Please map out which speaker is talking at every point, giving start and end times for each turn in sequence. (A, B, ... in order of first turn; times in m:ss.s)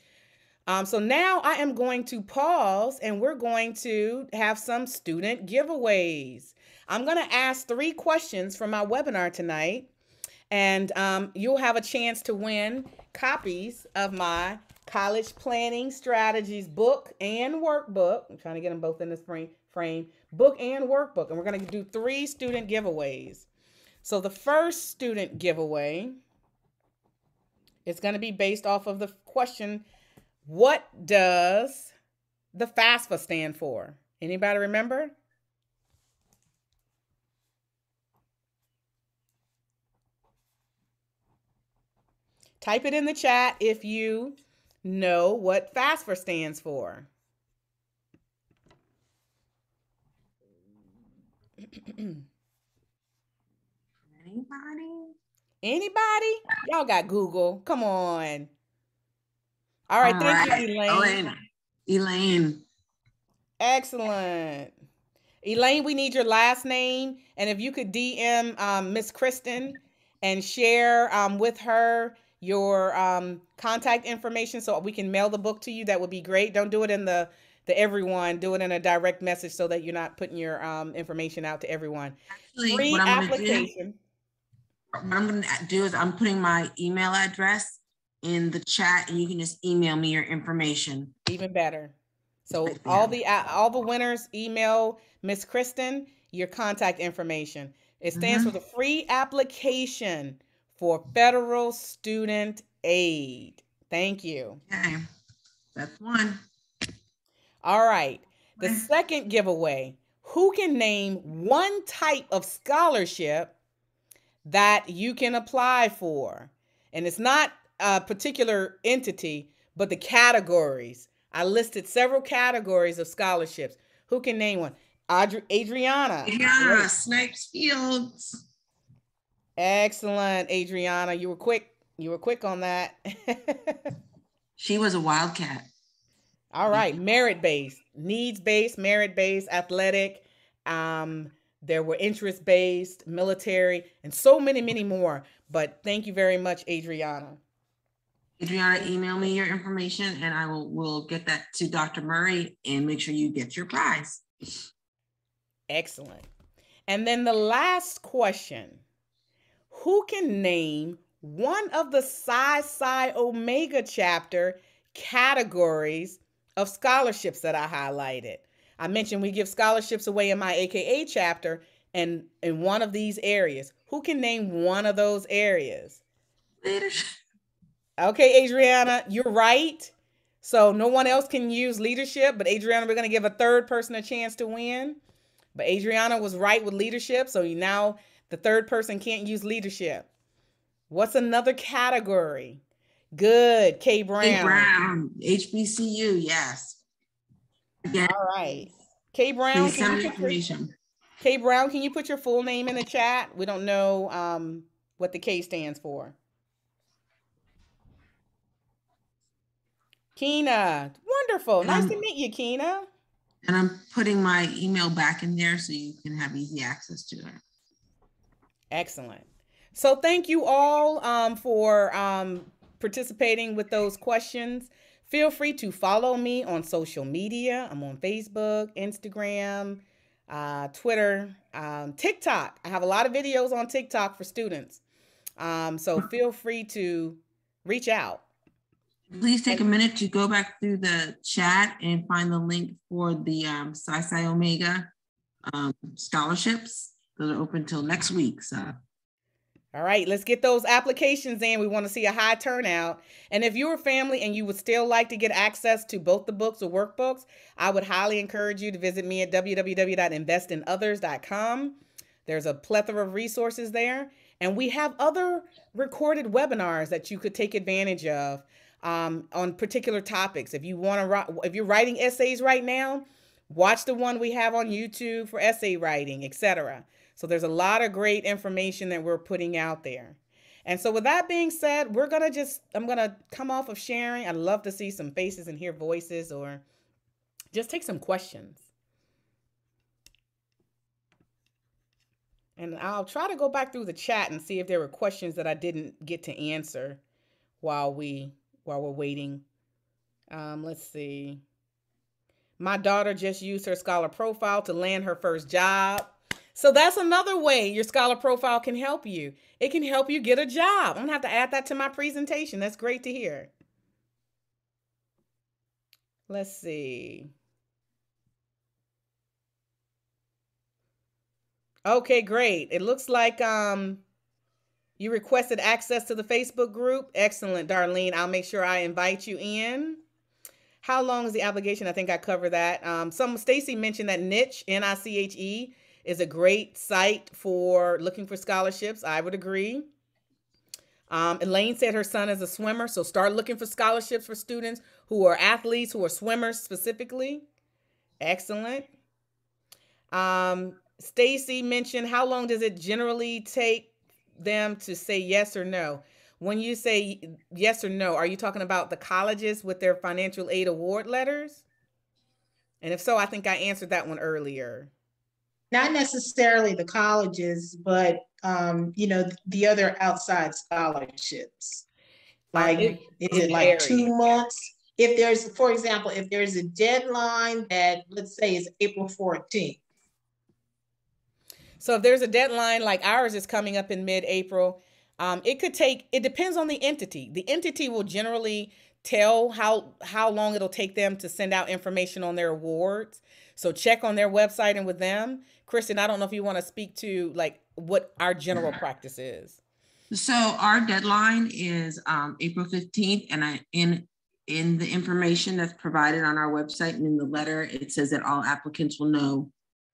0:00.7-0:09.9 A
0:10.5-0:23.5 A
0:24.0-0:26.2 A
0:27.8-0:29.8 A
0:30.5-0:31.9 A
0:32.5-0:35.1 A
0:42.6-0:47.1 A
0:54.1-0:55.2 B
0:55.6-0:58.5 A
0:59.9-1:01.3 A
1:00.0-1:01.4 B
1:01.9-1:02.6 B
1:03.6-1:04.7 A
1:05.4-1:24.0 A
1:22.3-1:23.7 B
1:24.9-1:31.1 B
1:31.3-1:31.9 A
1:32.5-1:44.6 A
1:32.6-1:33.2 B
1:38.2-1:38.5 B
1:44.7-1:45.0 B
1:45.8-1:46.4 B
1:47.6-1:53.5 A
1:48.6-1:48.9 B
1:54.4-2:06.9 A
2:06.2-2:08.4 B
2:09.6-2:13.8 A
2:14.6-2:15.7 B
2:16.5-2:27.4 A
2:28.4-2:34.5 B
2:35.7-2:36.3 A
2:36.9-2:38.8 A
2:39.7-2:56.0 A
2:56.6-2:57.2 B
2:58.0-3:05.0 A
3:05.6-3:10.1 A
3:10.9-3:12.6 A
3:13.2-3:14.7 A
3:14.2-3:16.8 B
3:17.9-3:18.2 B
3:18.1-3:20.4 A
3:19.5-3:20.7 B
3:21.2-3:26.2 A
3:30.2-3:32.9 A
3:31.6-3:32.0 B
3:33.4-3:37.4 B
3:38.7-3:54.8 A
3:55.4-3:58.2 A
3:59.1-4:04.9 B
4:05.5-4:08.8 B
4:09.7-4:46.6 A
4:47.5-4:48.6 A
4:52.6-4:57.0 A
4:57.6-4:59.4 A
5:00.3-5:01.4 A
5:02.6-5:13.5 A
5:16.3-5:17.3 A
5:21.9-5:24.0 A
5:25.0-5:30.0 A
5:30.8-5:39.9 A
5:41.1-5:47.4 A
5:48.2-5:48.9 A
5:50.1-6:01.6 A
6:02.8-6:04.9 A
6:05.7-6:11.8 C
6:12.5-6:14.1 A
6:12.5-6:19.8 C
6:21.8-6:39.6 A
6:40.1-6:49.5 B